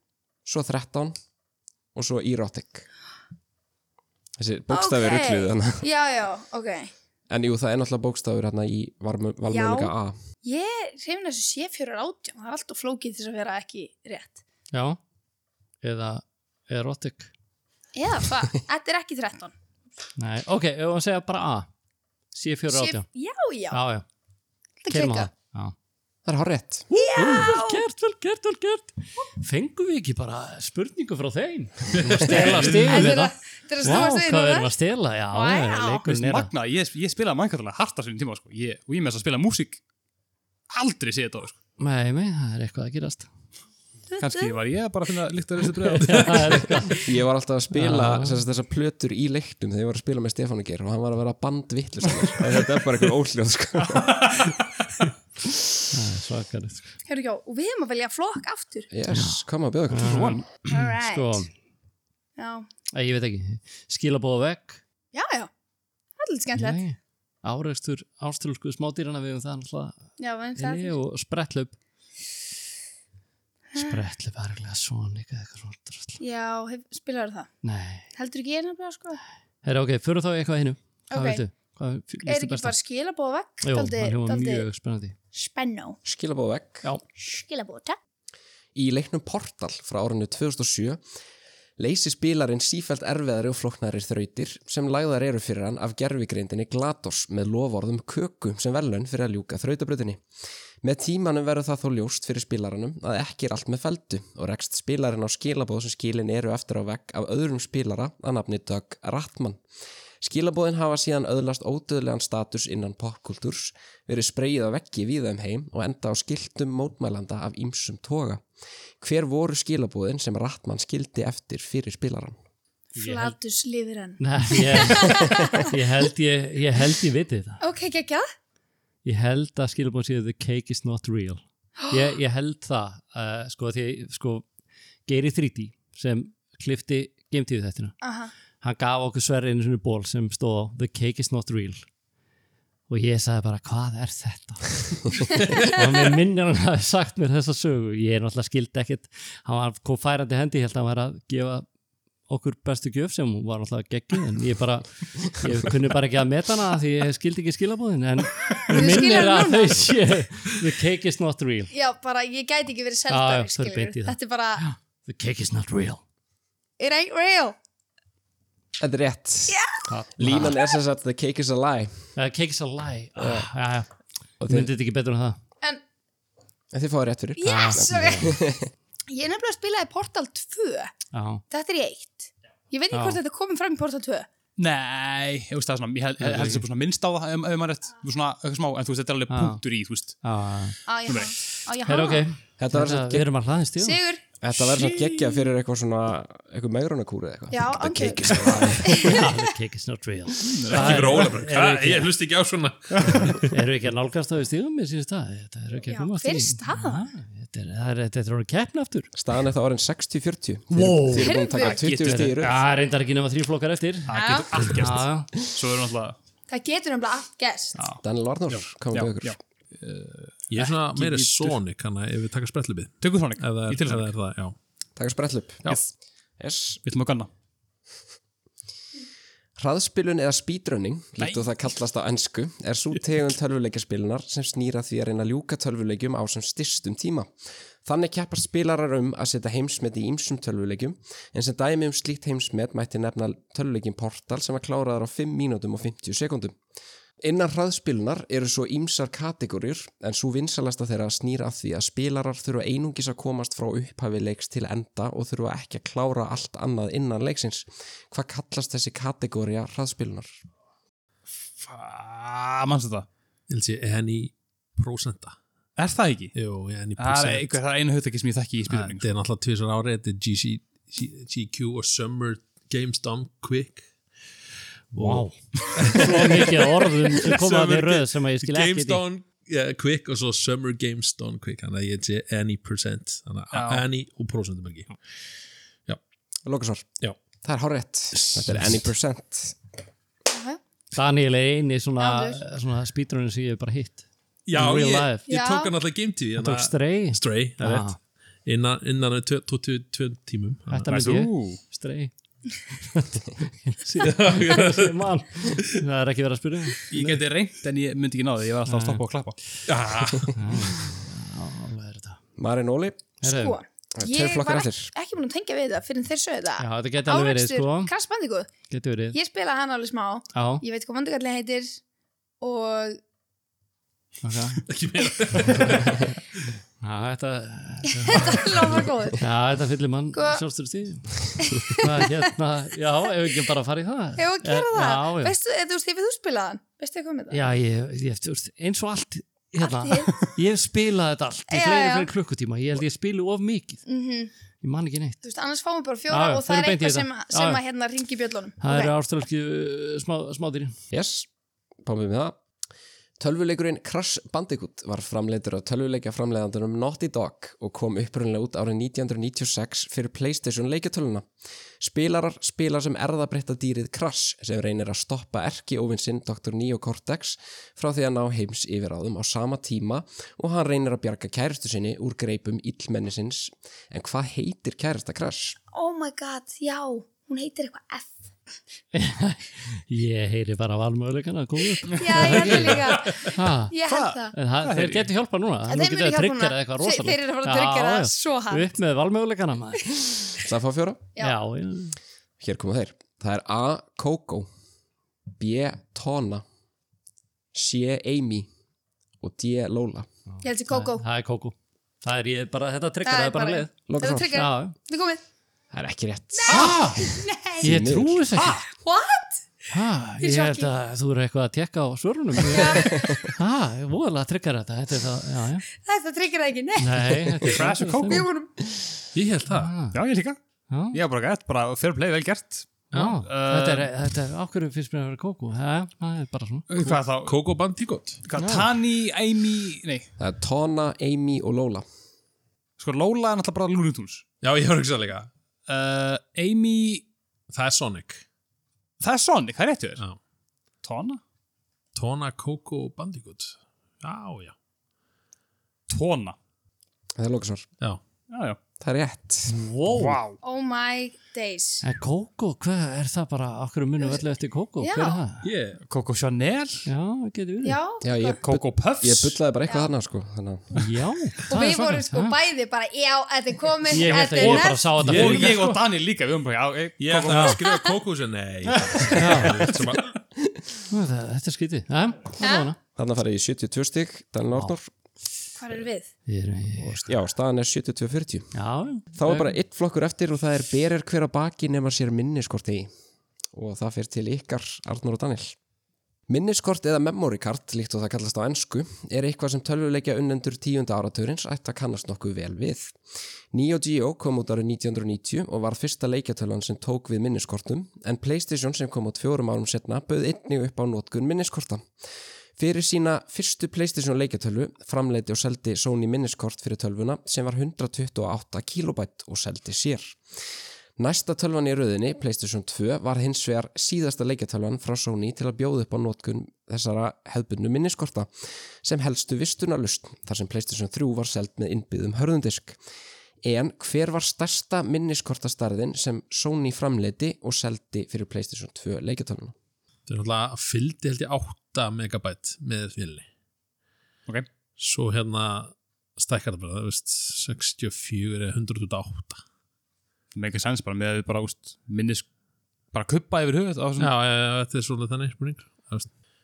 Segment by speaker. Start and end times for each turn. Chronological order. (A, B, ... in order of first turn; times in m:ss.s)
0:00.4-0:01.2 A
0:02.0-0:02.9 A
0:04.4-0:05.9 A
0:04.7-0:06.9 B
0:07.3-0:10.2 A
0:09.5-0:09.9 B
0:10.4-0:14.4 B
0:14.7-0:15.0 C
0:15.8-0:17.3 C
0:18.0-0:19.5 B
0:20.2-0:21.7 C
0:22.3-0:23.0 C
0:22.7-0:23.8 B
0:23.7-0:24.0 C
0:24.8-0:25.3 B
0:24.9-0:25.8 C
0:26.2-0:26.9 A
0:26.9-0:27.8 B
0:27.0-0:36.5 C
0:31.9-0:33.1 D
0:32.4-0:33.0 E
0:32.8-0:34.7 B
0:35.3-0:36.0 B
0:36.0-0:39.8 E
0:40.7-0:41.6 E
0:41.8-0:43.3 C
0:44.2-0:44.6 B
0:44.2-0:46.7 E
0:46.0-0:47.1 C
0:47.0-0:54.3 A
0:47.7-0:48.4 C
0:55.9-0:57.0 C
0:57.1-0:58.9 B
0:58.9-1:00.4 A
0:59.1-1:01.5 C
1:00.0-1:00.4 E
1:00.7-1:01.5 B
1:02.4-1:02.7 B
1:02.9-1:04.8 C
1:05.1-1:05.5 B
1:06.2-1:06.8 B
1:06.6-1:10.0 C
1:10.2-1:11.0 B
1:10.6-1:11.8 C
1:13.7-1:14.0 B
1:13.8-1:16.2 C
1:16.2-1:17.5 B
1:17.6-1:18.1 C
1:18.2-1:19.2 B
1:19.6-1:22.8 C
1:21.1-1:21.4 B
1:22.3-1:24.7 B
1:23.6-1:25.2 C
1:25.3-1:26.0 B
1:26.0-1:26.9 A
1:27.2-1:28.0 B
1:28.8-1:31.0 A
1:31.8-1:40.2 A
1:40.8-1:49.6 A
1:50.2-1:58.4 A
1:59.0-2:02.4 A
2:03.0-2:05.7 B
2:03.0-2:03.4 C
2:04.2-2:07.6 C
2:07.6-2:08.3 B
2:09.0-2:14.5 C
2:15.1-2:18.0 C
2:18.0-2:18.3 B
2:18.6-2:21.9 C
2:22.9-2:31.7 C
2:32.3-2:41.7 C
2:38.7-2:39.9 B
2:41.7-2:44.6 B
2:43.1-2:46.0 C
2:46.8-2:47.6 B
2:48.8-2:49.6 A
2:49.5-2:49.8 B
2:49.9-2:50.6 C
2:50.2-2:52.1 A
2:52.2-2:53.9 C
2:53.2-2:53.5 A
2:54.4-2:54.7 A
2:54.4-2:55.4 C
2:56.7-2:58.7 A
2:57.4-2:58.4 B
2:57.5-2:58.3 C
2:59.1-3:00.9 B
3:01.1-3:01.4 C
3:01.5-3:04.3 B
3:02.9-3:03.2 C
3:04.6-3:10.2 E
3:06.2-3:06.6 C
3:09.3-3:09.6 C
3:10.2-3:10.8 C
3:10.9-3:12.3 B
3:11.1-3:11.4 E
3:11.8-3:14.0 C
3:12.6-3:13.3 A
3:13.8-3:14.2 B
3:14.4-3:19.1 A
3:14.6-3:15.2 E
3:17.5-3:19.3 B
3:18.5-3:22.1 C
3:20.4-3:21.3 E
3:20.7-3:23.6 D
3:23.4-3:29.1 C
3:25.9-3:27.0 B
3:29.2-3:32.6 A
3:30.7-3:31.4 C
3:31.2-3:31.8 B
3:31.6-3:32.5 E
3:32.0-3:35.3 C
3:34.1-3:36.2 E
3:34.1-3:34.6 B
3:36.5-3:37.8 B
3:37.8-3:38.0 E
3:38.0-3:39.4 A
3:38.9-3:41.6 E
3:40.5-3:44.6 D
3:43.0-3:44.1 E
3:45.0-3:45.8 A
3:46.4-3:46.8 A
3:46.8-3:47.3 E
3:49.6-3:57.3 A
3:51.2-3:51.5 E
3:57.8-4:06.6 A
4:07.2-4:20.3 A
4:21.4-4:23.1 E
4:23.5-4:25.4 D
4:25.8-4:26.4 E
4:26.4-4:27.6 D
4:27.0-4:29.1 E
4:28.7-4:33.9 D
4:34.9-4:39.0 C
4:34.9-4:44.9 D
4:43.5-4:43.8 E
4:46.5-4:46.9 A
4:47.4-4:49.6 A
4:48.2-4:48.8 D
4:50.3-4:50.6 B
4:50.9-4:55.3 C
4:52.0-4:52.4 B
4:54.5-5:00.9 D
4:55.3-4:55.7 B
4:56.4-4:58.0 C
5:00.7-5:02.1 C
5:00.9-5:01.6 E
5:02.8-5:07.2 C
5:04.0-5:05.8 D
5:06.9-5:09.4 E
5:08.7-5:09.0 C
5:09.7-5:10.7 D
5:10.3-5:12.2 C
5:12.4-5:13.1 A
5:13.2-5:13.6 C
5:13.2-5:18.5 B
5:14.0-5:14.9 A
5:16.6-5:17.9 C
5:18.7-5:19.2 C
5:19.1-5:21.8 B
5:20.3-5:20.6 C
5:22.4-5:23.0 B
5:24.2-5:24.6 C
5:24.7-5:26.2 D
5:25.4-5:25.9 C
5:26.8-5:35.3 C
5:27.9-5:29.2 B
5:30.1-5:30.4 B
5:31.4-5:32.2 B
5:34.2-5:37.4 B
5:37.3-5:43.8 C
5:39.6-5:40.3 B
5:41.5-5:42.1 B
5:43.9-5:44.3 B
5:44.6-5:45.2 C
5:45.2-5:48.9 B
5:46.1-5:47.6 C
5:48.6-5:50.8 C
5:50.9-5:51.3 A
5:51.8-5:52.4 A
5:53.2-6:01.3 A
6:01.8-6:15.6 A
6:15.7-6:18.3 B
6:18.9-6:23.8 C
6:21.9-6:24.4 B
6:22.1-6:22.8 E
6:23.8-6:25.1 E
6:24.3-6:29.9 C
6:25.7-6:28.7 B
6:30.4-6:31.1 A
6:31.2-6:32.0 C
6:32.4-6:34.5 A
6:35.4-6:36.4 A
6:37.5-6:38.5 A
6:39.2-6:40.1 A
6:40.4-6:43.7 C
6:40.4-6:41.0 B
6:43.0-6:45.2 B
6:43.9-6:44.4 A
6:44.3-6:44.8 C
6:45.7-6:46.8 A
6:46.4-6:47.8 B
6:46.5-6:48.7 C
6:47.6-6:48.3 A
6:48.7-6:49.4 B
6:49.7-6:55.7 C
6:50.2-6:50.7 B
6:52.5-6:53.2 B
6:52.8-6:53.2 A
6:55.7-6:57.4 B
6:56.8-6:58.3 C
6:57.4-6:58.3 E
6:58.1-6:58.6 B
6:59.1-6:59.7 D
6:59.5-7:00.0 C
6:59.9-7:00.4 E
7:00.7-7:01.0 C
7:00.9-7:03.9 E
7:02.9-7:06.7 C
7:06.7-7:07.4 E
7:06.8-7:08.2 D
7:08.2-7:10.1 E
7:08.4-7:08.7 C
7:10.2-7:11.8 A
7:12.8-7:14.2 E
7:14.4-7:15.3 D
7:15.7-7:17.1 E
7:17.5-7:18.2 D
7:19.0-7:20.0 E
7:20.8-7:21.2 E
7:22.0-7:24.5 D
7:25.9-7:26.4 E
7:27.2-7:27.7 A
7:28.3-7:28.6 E
7:28.8-7:29.5 A
7:29.5-7:30.2 C
7:29.9-7:30.4 E
7:30.4-7:31.8 B
7:31.8-7:35.5 C
7:34.8-7:35.2 B
7:35.4-7:35.8 D
7:35.8-7:36.9 E
7:36.9-7:37.8 C
7:37.6-7:38.4 B
7:38.0-7:40.8 A
7:38.4-7:39.4 E
7:40.8-7:42.4 C
7:41.5-7:45.0 B
7:43.9-7:45.8 C
7:45.0-7:45.6 D
7:45.0-7:47.7 E
7:47.0-7:50.2 D
7:47.3-7:47.6 C
7:49.1-7:49.7 C
7:50.9-7:52.8 C
7:52.4-7:52.7 B
7:53.0-7:54.9 A
7:55.6-7:56.1 B
7:56.3-7:57.1 C
7:56.8-7:58.5 A
7:58.5-7:59.6 C
7:59.1-8:02.9 A
8:03.5-8:05.6 A
8:06.3-8:13.0 A
8:13.5-8:21.8 A
8:22.6-8:30.2 A
8:31.0-8:38.3 A
8:38.8-8:42.8 A
8:43.4-8:49.6 A
8:50.1-8:53.3 D
8:54.8-8:59.4 D
9:00.3-9:02.3 E
9:02.9-9:04.1 E
9:04.0-9:06.1 D